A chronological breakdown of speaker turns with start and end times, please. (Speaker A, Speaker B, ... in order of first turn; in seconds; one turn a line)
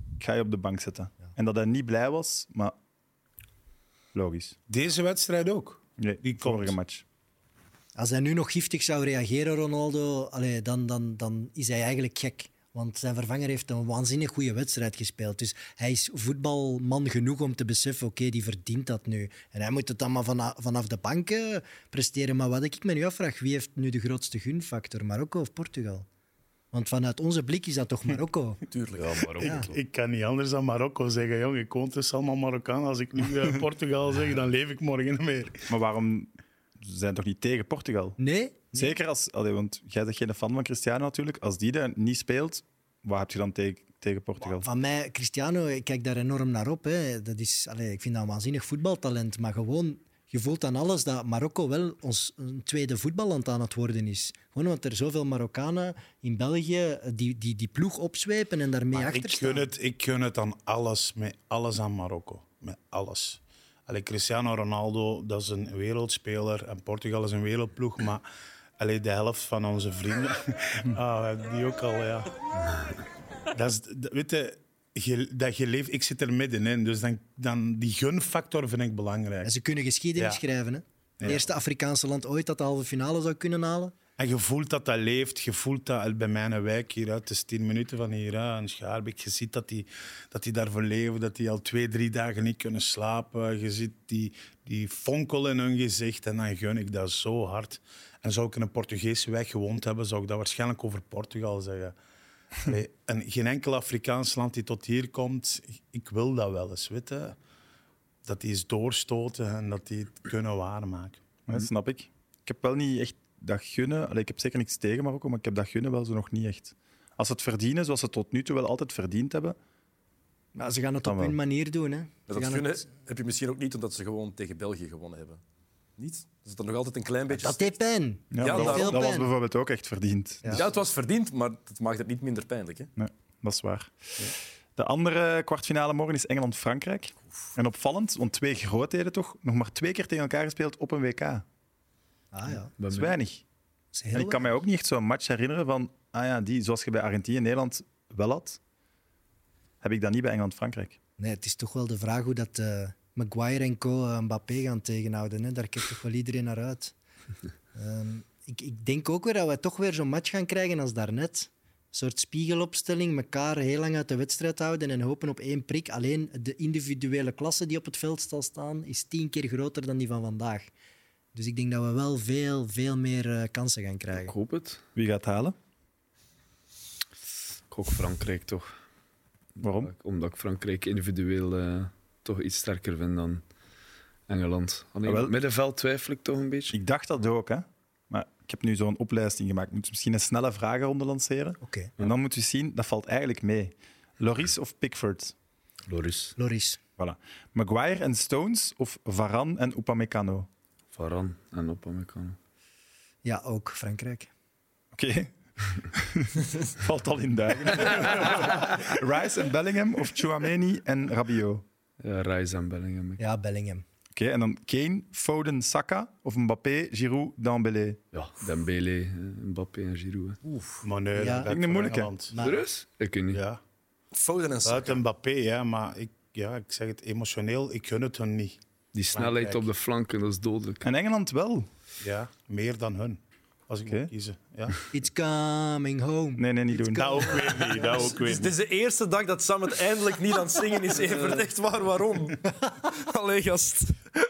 Speaker A: 0.2-2.7
Speaker A: 4.1-4.5
Speaker B: 4.7-6.8
Speaker A: 6.0-7.0
Speaker C: 8.0-26.1
Speaker C: 26.7-28.6
Speaker D: 28.7-29.4
Speaker E: 29.0-29.6
Speaker C: 29.4-29.7
Speaker B: 29.4-35.6
Speaker A: 35.7-38.2
Speaker C: 38.2-39.0
Speaker A: 38.7-44.7
Speaker C: 44.4-59.7
Speaker B: 58.9-68.2
Speaker B: 68.8-72.3
Speaker B: 73.5-79.5
Speaker C: 79.4-84.0
Speaker B: 81.2-81.5
Speaker B: 84.2-102.0
Speaker B: 102.6-107.4
Speaker B: 108.2-111.2
Speaker A: 111.5-119.5
Speaker C: 120.5-122.9
Speaker A: 121.0-121.4
Speaker D: 122.3-125.4
Speaker D: 126.0-127.7
Speaker C: 127.3-129.3
Speaker A: 128.3-130.7
Speaker D: 128.4-129.0
Speaker D: 130.5-132.9
Speaker A: 133.0-141.4
Speaker C: 142.3-142.7
Speaker E: 142.8-143.2
Speaker A: 142.8-143.4
Speaker C: 143.9-144.5
Speaker A: 144.1-148.6
Speaker A: 149.8-151.0
Speaker C: 151.2-156.9
Speaker C: 157.7-170.7
Speaker C: 171.3-174.3
Speaker E: 174.2-174.8
Speaker A: 174.9-175.6
Speaker E: 177.7-178.7
Speaker A: 179.6-179.9
Speaker E: 179.6-183.4
Speaker E: 184.3-186.8
Speaker A: 185.1-185.4
Speaker A: 186.7-195.3
Speaker C: 191.6-191.9
Speaker E: 195.9-196.3
Speaker C: 196.4-196.8
Speaker A: 197.0-200.5
Speaker E: 200.9-202.4
Speaker C: 203.2-204.3
Speaker A: 204.9-211.6
Speaker E: 212.0-213.2
Speaker C: 213.2-213.8
Speaker A: 214.1-218.0
Speaker E: 218.1-220.4
Speaker C: 220.5-221.5
Speaker B: 220.8-222.3
Speaker A: 221.4-222.1
Speaker C: 222.3-222.6
Speaker E: 222.4-223.4
Speaker B: 223.3-223.6
Speaker D: 224.1-225.0
Speaker B: 224.6-228.6
Speaker E: 228.9-230.9
Speaker B: 229.1-229.7
Speaker A: 230.8-231.7
Speaker B: 232.0-234.8
Speaker A: 233.8-234.1
Speaker C: 234.9-238.1
Speaker A: 236.4-237.4
Speaker B: 236.9-238.5
Speaker D: 237.9-244.0